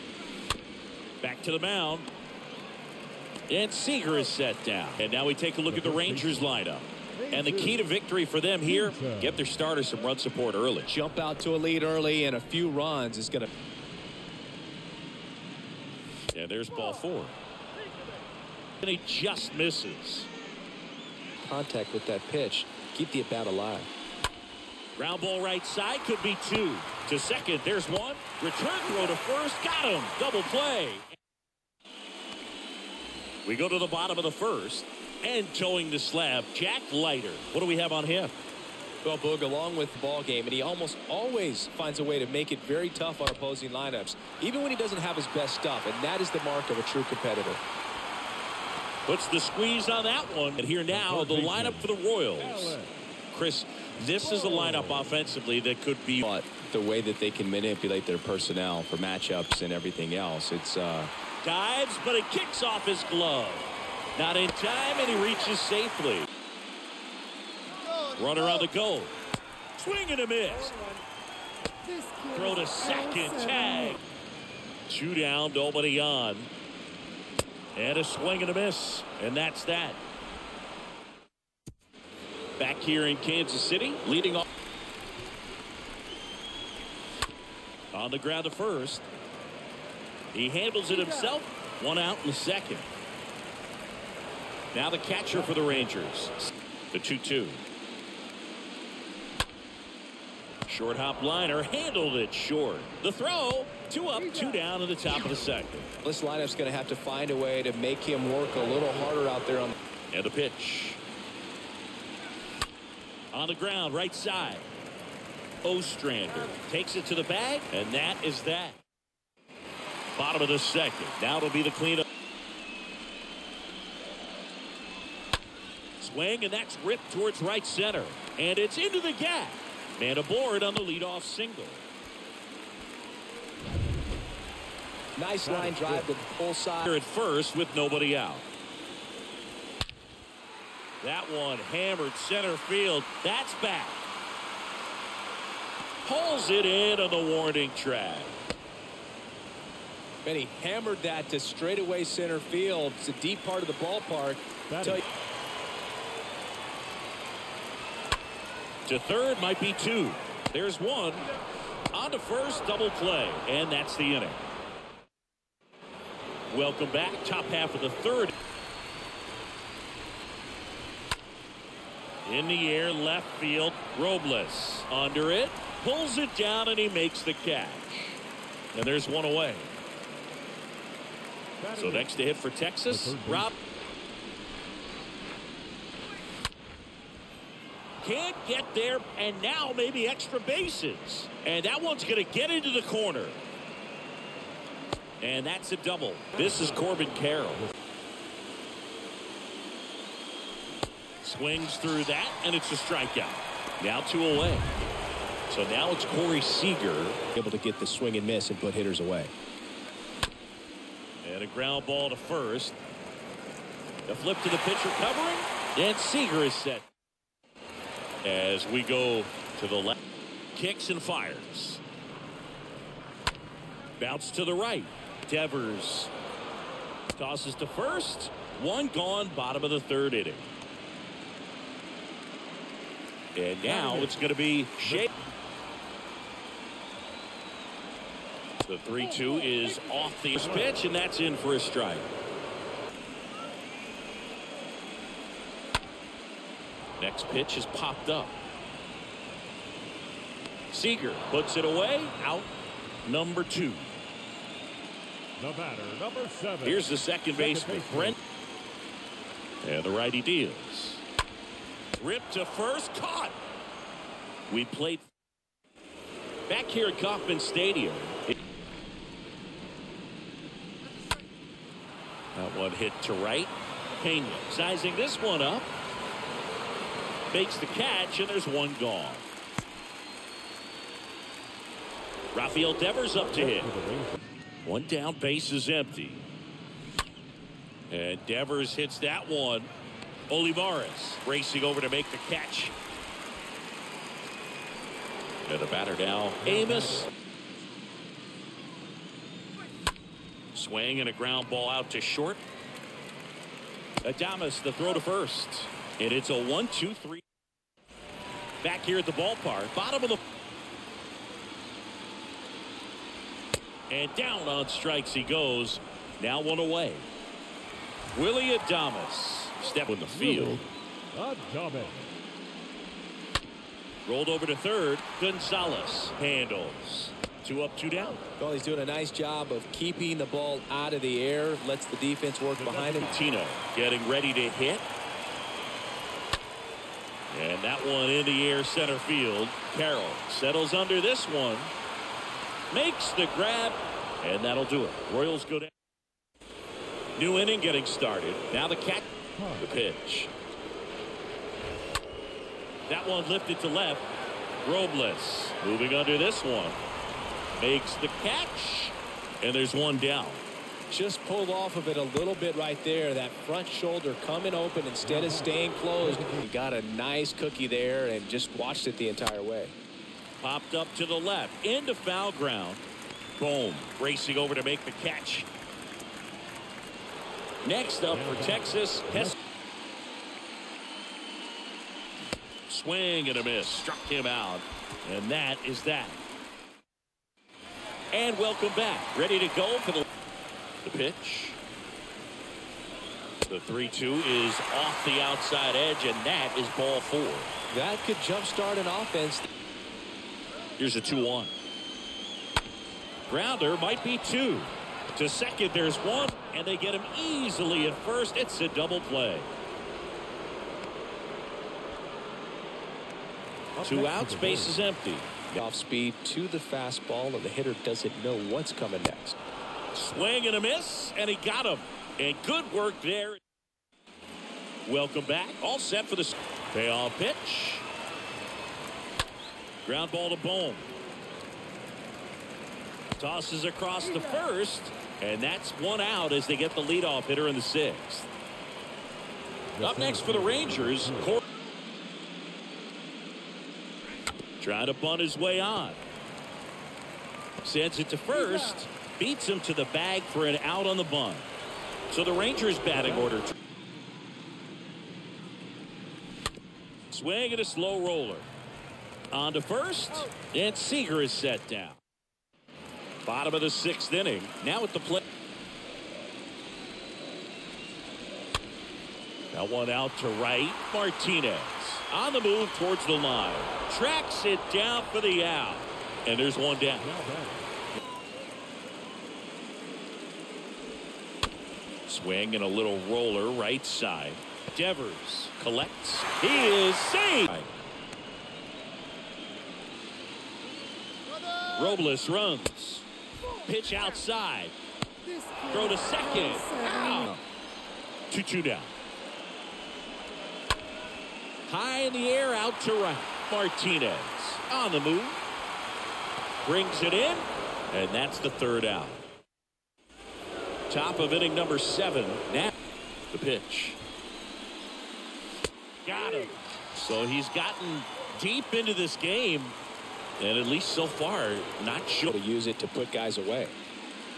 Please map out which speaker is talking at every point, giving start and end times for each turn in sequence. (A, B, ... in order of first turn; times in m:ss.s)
0:01.2-0:02.1 A
0:03.5-0:10.9 A
0:05.7-0:06.5 B
0:07.2-0:07.8 B
0:08.6-0:09.4 B
0:10.9-0:13.5 C
0:16.3-0:17.3 A
0:18.8-0:20.3 A
0:21.4-0:23.9 C
0:25.0-0:31.2 A
0:33.4-0:38.4 A
0:39.0-0:47.6 C
0:49.1-0:52.8 A
0:50.9-0:53.0 B
0:53.3-0:56.2 A
0:54.0-0:55.2 B
0:56.2-1:01.1 C
1:01.4-1:06.3 A
1:08.1-1:09.1 A
1:09.8-1:10.8 A
1:12.0-1:14.0 A
1:14.9-1:16.5 A
1:17.8-1:20.0 A
1:22.6-1:24.4 A
1:27.9-1:29.1 A
1:30.3-1:32.9 A
1:34.7-1:37.6 A
1:40.7-1:45.9 A
1:46.0-1:49.8 C
1:50.1-1:51.0 A
1:53.3-1:54.7 A
1:55.6-1:58.8 A
2:00.2-2:02.0 A
2:06.0-2:11.8 A
2:15.2-2:17.0 C
2:15.4-2:16.1 B
2:16.8-2:18.4 A
2:21.0-2:24.0 A
2:26.0-2:28.4 A
2:30.2-2:35.0 C
2:34.7-2:35.0 B
2:38.9-2:41.2 A
2:41.9-2:44.4 A
2:46.5-2:48.3 A
2:52.3-2:58.2 A
2:58.7-2:59.7 A
3:01.6-3:02.1 B
3:01.8-3:03.6 A
3:02.9-3:03.5 B
3:08.0-3:13.4 A
3:15.2-3:17.7 A
3:21.2-3:24.6 A
3:25.5-3:27.2 A
3:27.4-3:29.3 C
3:31.2-3:32.8 A
3:34.1-3:36.8 A
3:38.2-3:40.0 A
3:40.6-3:41.8 A
3:44.0-3:46.1 A
3:47.2-3:50.5 A
3:53.4-3:55.1 A
3:53.6-3:54.2 B
3:54.8-3:55.1 B
3:58.6-4:02.1 A
4:00.4-4:00.7 B
4:07.0-4:08.4 A
4:10.7-4:12.5 A
4:13.0-4:13.9 A
4:15.4-4:18.2 B
4:16.6-4:18.2 A
4:19.6-4:21.0 A
4:22.0-4:23.4 A
4:24.5-4:25.1 A
4:26.5-4:28.3 A
4:32.4-4:35.7 A
4:37.3-4:39.2 A
4:42.3-4:43.7 A
4:43.2-4:44.2 B
4:44.6-4:46.3 A
4:47.9-4:49.7 A
4:50.3-4:52.7 A
4:55.5-4:57.1 A
4:56.4-4:57.1 B
5:00.5-5:02.4 A
5:04.0-5:07.2 A
5:08.6-5:10.2 A
5:13.9-5:17.1 A
5:18.2-5:20.6 A
5:20.1-5:22.1 B
5:24.1-5:28.2 A
5:28.4-5:33.1 C
5:32.6-5:33.2 B
5:32.9-5:34.8 A
5:37.3-5:41.7 A
5:42.7-5:45.7 A
5:47.2-5:49.1 A
5:49.4-5:49.7 B
5:49.6-5:50.3 A
5:52.9-5:54.1 A
5:54.6-5:56.8 A
5:57.6-6:00.4 A
6:00.9-6:09.8 C
6:05.0-6:06.5 B
6:10.4-6:12.9 A
6:13.4-6:15.5 A
6:17.6-6:19.4 A
6:18.1-6:19.4 B
6:22.7-6:26.2 A
6:28.1-6:30.0 A
6:30.8-6:31.6 A
6:33.5-6:37.5 A
6:37.7-6:39.5 C
6:40.8-6:41.5 A
6:43.3-6:49.5 A
6:53.8-6:54.8 B
6:53.8-6:55.5 A
6:55.5-6:59.4 C
6:59.9-7:03.4 A
7:04.9-7:07.8 A
7:09.8-7:10.9 A
7:13.2-7:18.3 A
7:19.7-7:21.3 B
7:19.8-7:21.4 A
7:24.6-7:26.0 A
7:27.6-7:31.5 A
7:32.1-7:33.5 A
7:33.0-7:33.3 B
7:37.1-7:38.5 A
7:39.3-7:42.0 A
7:43.2-7:45.2 A
7:49.5-7:57.1 A
7:57.0-7:57.7 B
8:02.1-8:07.7 A
8:11.7-8:13.1 A
8:13.6-8:14.7 A
8:15.5-8:17.4 A
8:18.3-8:18.9 A
8:21.7-8:25.4 A
8:26.6-8:29.2 A
8:30.9-8:32.7 A
8:33.3-8:34.0 A
8:36.0-8:39.8 A
8:40.4-8:42.3 A
8:42.3-8:43.8 C